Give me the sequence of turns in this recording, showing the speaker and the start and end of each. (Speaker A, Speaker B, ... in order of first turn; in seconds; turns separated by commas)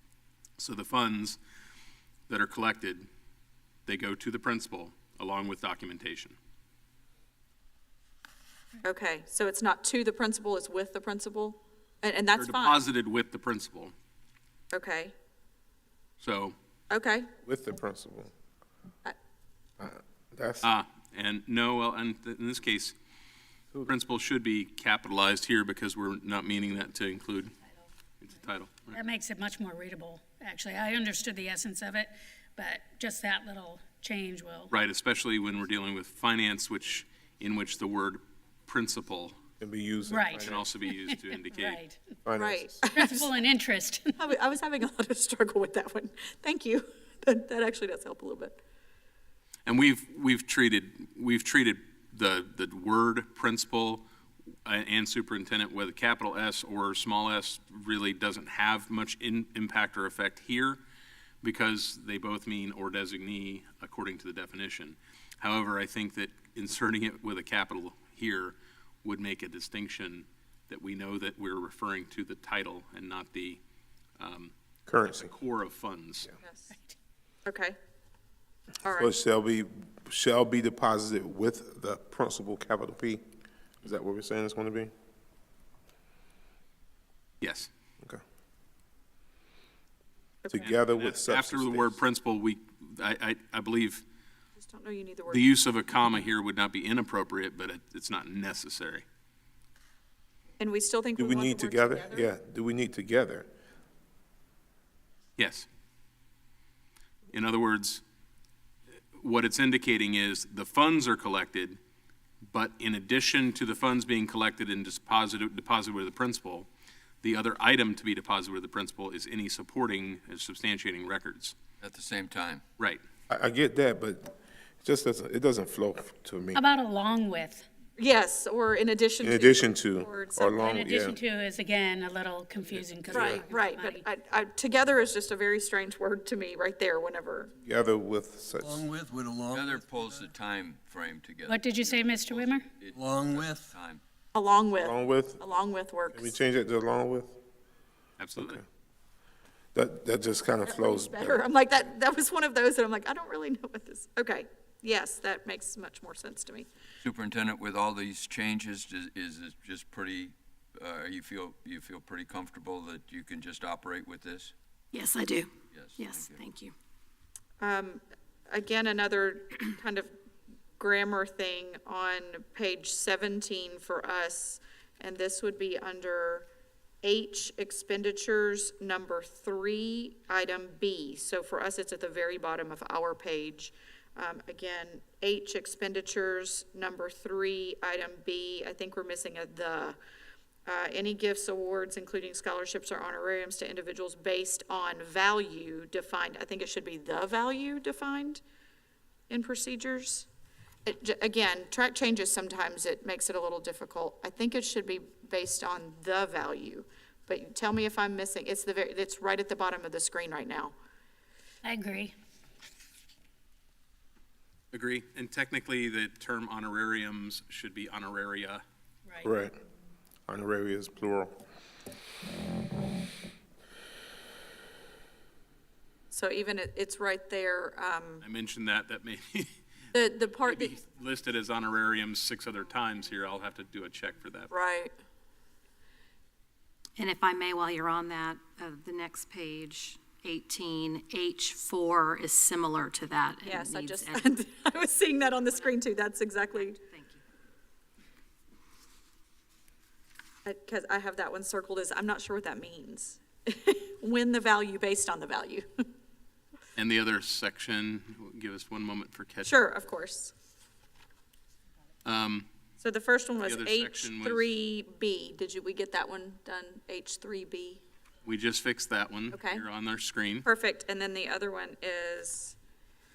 Speaker A: 0.6-1.4, Speaker A: 2.3-3.1, Speaker A: 3.9-6.4, Speaker B: 8.8-12.8, Speaker A: 12.4-13.9, Speaker B: 14.7-15.1, Speaker A: 16.2-16.6, Speaker B: 16.9-17.3, Speaker C: 17.4-18.3, Speaker C: 19.8-20.7, Speaker A: 20.6-22.9, Speaker A: 23.9-27.5, Speaker A: 28.2-29.0, Speaker D: 28.9-34.7, Speaker A: 34.7-39.4, Speaker C: 39.6-40.6, Speaker D: 40.1-42.0, Speaker A: 40.4-41.8, Speaker C: 42.2-42.8, Speaker B: 42.4-43.3, Speaker D: 42.9-44.2, Speaker B: 44.2-48.6, Speaker A: 49.7-54.0, Speaker A: 54.6-60.8, Speaker A: 61.4-73.6, Speaker A: 74.2-74.5, Speaker C: 74.9-75.3, Speaker A: 75.1-76.3, Speaker B: 76.4-76.8, Speaker B: 77.5-77.8, Speaker B: 78.8-79.1, Speaker C: 79.0-83.2, Speaker C: 83.8-84.9, Speaker A: 87.4-87.7, Speaker C: 90.5-92.0, Speaker A: 90.6-94.0, Speaker B: 94.6-95.5, Speaker A: 95.3-99.0, Speaker B: 100.6-102.3, Speaker C: 101.2-103.5, Speaker A: 105.4-105.7, Speaker A: 107.3-108.0, Speaker A: 109.2-111.8, Speaker A: 112.4-116.7, Speaker A: 117.2-121.5, Speaker E: 121.8-122.6, Speaker C: 123.3-126.6, Speaker D: 126.5-127.7, Speaker B: 128.0-130.5, Speaker C: 129.2-131.2, Speaker D: 130.5-134.1, Speaker C: 132.8-133.4, Speaker B: 133.1-137.5, Speaker C: 137.6-138.8, Speaker F: 138.6-140.3, Speaker E: 139.5-144.0, Speaker D: 141.5-142.7, Speaker F: 142.9-143.8, Speaker B: 144.3-146.4, Speaker C: 144.8-145.4, Speaker C: 146.1-147.4, Speaker A: 148.2-148.6, Speaker C: 148.4-148.6, Speaker C: 149.8-151.5, Speaker B: 150.7-156.7, Speaker E: 157.0-164.5, Speaker G: 164.9-166.7, Speaker E: 165.7-166.4, Speaker B: 167.6-170.1, Speaker B: 170.8-176.5, Speaker B: 177.0-190.0, Speaker B: 190.7-198.4, Speaker B: 199.3-200.3, Speaker B: 200.9-210.7, Speaker D: 211.6-212.1, Speaker A: 214.7-218.6, Speaker C: 219.2-219.6, Speaker C: 220.3-221.4, Speaker B: 226.1-228.2, Speaker A: 228.2-229.6, Speaker B: 229.9-230.8, Speaker A: 230.4-234.5, Speaker B: 234.5-234.9, Speaker G: 237.0-244.3, Speaker B: 243.4-246.8, Speaker G: 245.4-247.2, Speaker B: 250.4-255.7, Speaker A: 256.8-259.6, Speaker B: 259.4-260.3, Speaker A: 262.1-262.5, Speaker B: 262.8-267.8, Speaker A: 263.4-264.5, Speaker A: 268.2-270.5, Speaker B: 269.3-269.6, Speaker B: 270.4-272.6